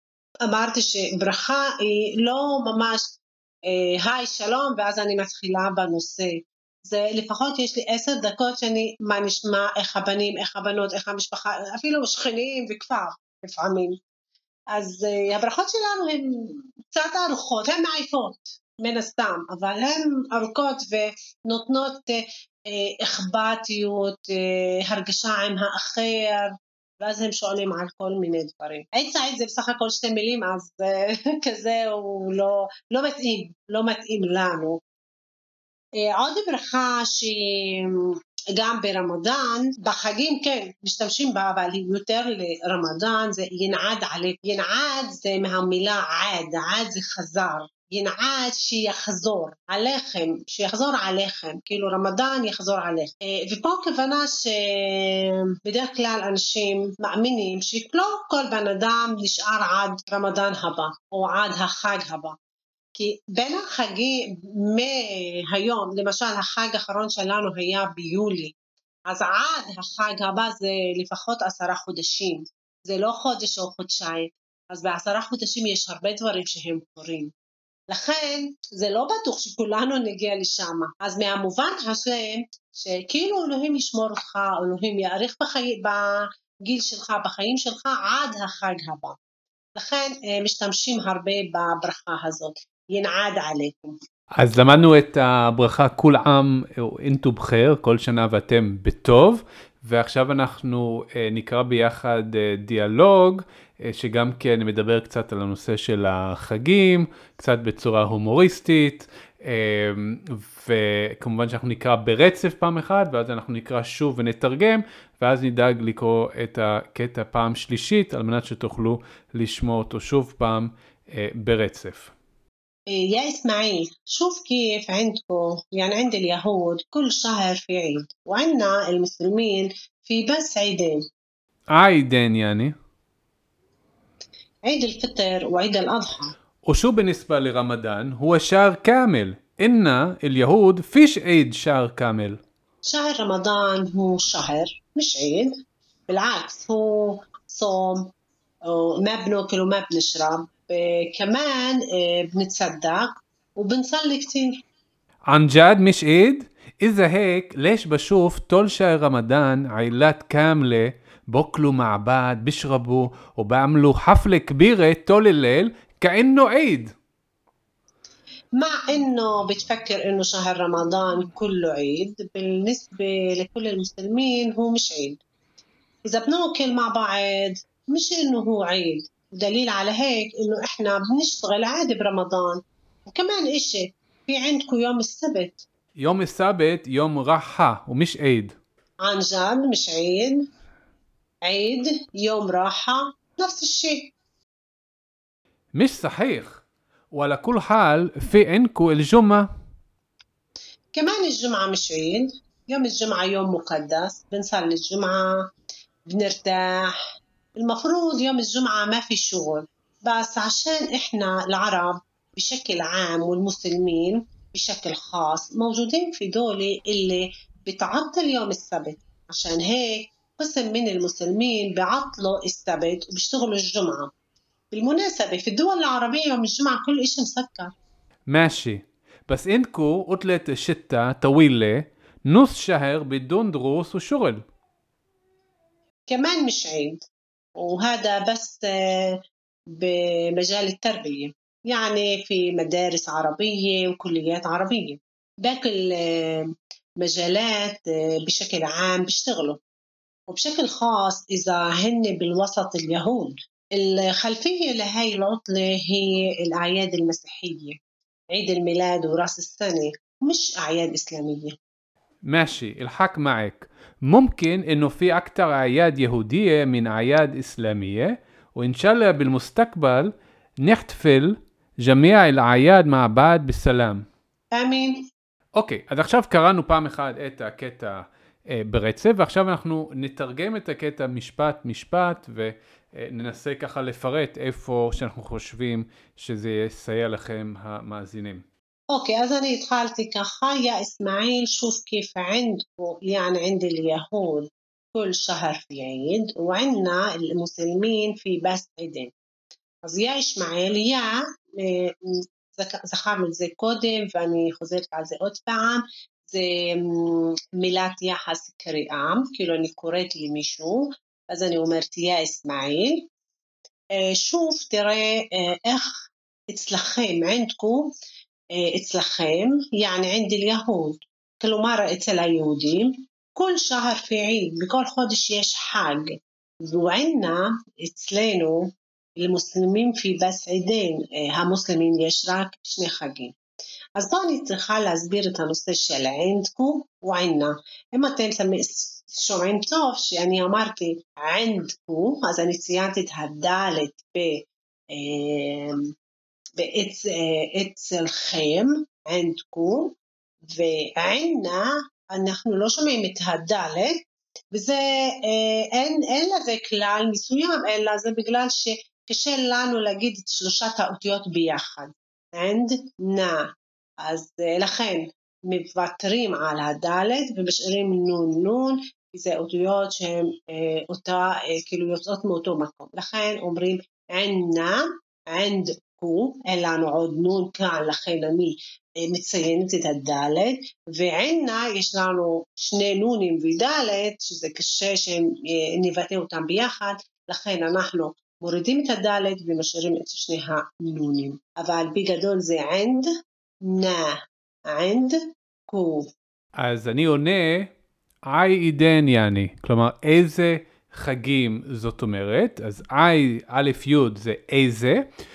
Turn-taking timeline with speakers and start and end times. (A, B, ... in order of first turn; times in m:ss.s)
0:00.5-0:14.0 A
0:14.7-0:34.8 A
0:36.0-1:02.4 A
1:03.0-1:08.5 A
1:09.1-1:17.3 A
1:17.9-1:29.2 A
1:29.8-1:34.0 A
1:34.4-2:02.1 B
2:02.9-2:11.0 A
2:11.7-2:12.7 B
2:14.6-2:16.3 A
2:16.6-2:22.4 B
2:22.8-2:25.6 A
2:26.1-2:28.1 A
2:28.6-2:34.6 A
2:35.3-2:46.9 B
2:48.6-2:55.2 A
2:56.1-3:05.6 A
3:06.0-3:08.6 B
3:09.0-3:10.5 A
3:11.4-3:14.1 A
3:15.7-3:19.5 B
3:20.9-3:25.5 A
3:26.1-3:27.0 A
3:27.6-3:44.1 A
3:44.7-3:47.7 A
3:48.3-3:54.4 B
3:56.1-3:57.0 A
3:57.6-4:09.6 A
4:10.3-4:17.8 A
4:18.3-4:21.6 A
4:22.2-4:30.1 B
4:30.6-4:34.0 B
4:34.5-4:35.1 A
4:35.6-4:48.4 B
4:48.9-4:59.1 A
4:59.8-5:13.1 A
5:14.0-5:17.9 A
5:18.5-5:33.4 A
5:34.0-5:45.9 A
5:46.6-5:50.0 A
5:50.5-5:54.0 A
5:54.5-6:03.5 A
6:04.0-6:33.1 A
6:33.6-6:36.1 A
6:36.6-6:37.7 B
6:38.3-6:45.0 B